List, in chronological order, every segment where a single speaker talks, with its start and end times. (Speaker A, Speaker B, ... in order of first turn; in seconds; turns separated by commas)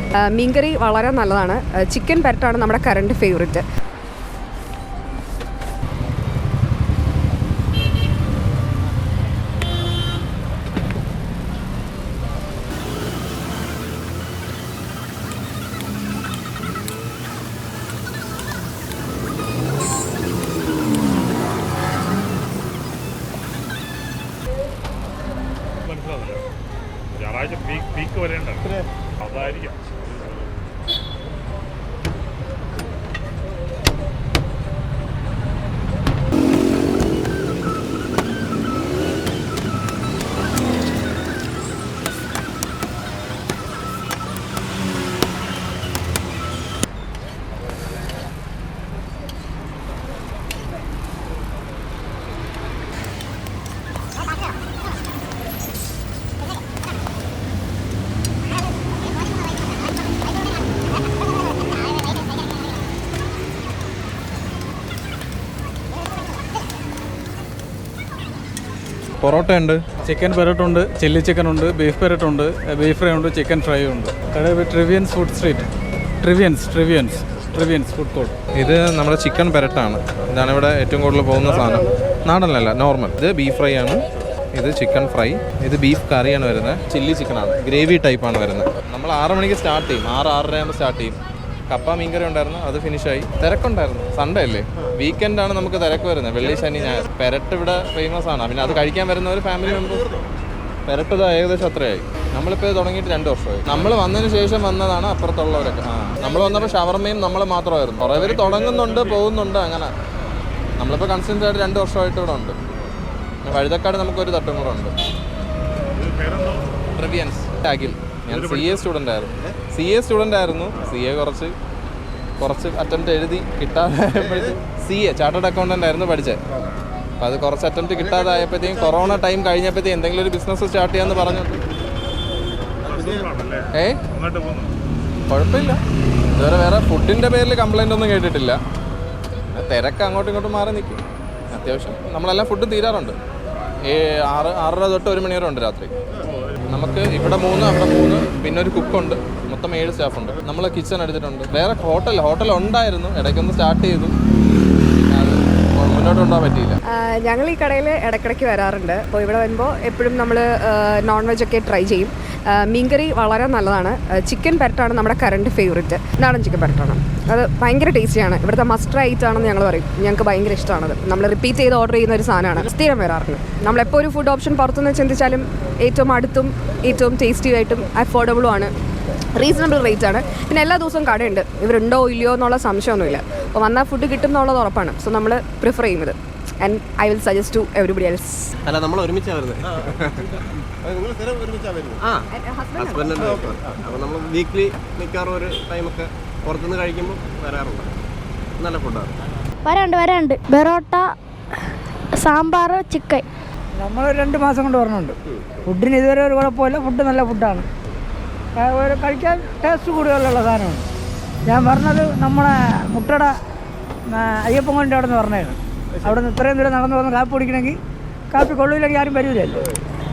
Speaker A: 0.3-3.6, Speaker B: 25.8-26.4, Speaker B: 27.1-30.7, Speaker C: 69.2-69.8, Speaker D: 70.0-75.7, Speaker D: 76.2-78.3, Speaker C: 78.5-84.0, Speaker C: 84.5-91.2, Speaker C: 91.7-100.1, Speaker C: 100.9-109.9, Speaker B: 108.2-109.2, Speaker C: 110.8-112.5, Speaker C: 113.4-114.9, Speaker B: 115.9-116.7, Speaker C: 116.9-121.5, Speaker B: 118.3-118.8, Speaker C: 122.4-126.4, Speaker C: 127.2-131.6, Speaker B: 132.8-134.7, Speaker C: 133.7-134.0, Speaker C: 135.3-135.8, Speaker C: 136.3-138.6, Speaker C: 139.5-141.0, Speaker C: 141.5-143.2, Speaker C: 143.8-145.9, Speaker B: 146.2-146.5, Speaker C: 146.7-154.1, Speaker C: 155.1-156.8, Speaker A: 156.9-178.7, Speaker A: 179.4-188.5, Speaker E: 188.6-190.3, Speaker A: 192.3-193.3, Speaker E: 192.9-197.9, Speaker E: 198.6-199.1, Speaker F: 199.6-201.1, Speaker F: 201.6-203.2, Speaker G: 203.8-207.7, Speaker G: 208.6-210.8, Speaker G: 211.5-213.3, Speaker G: 214.1-217.8, Speaker G: 218.3-219.7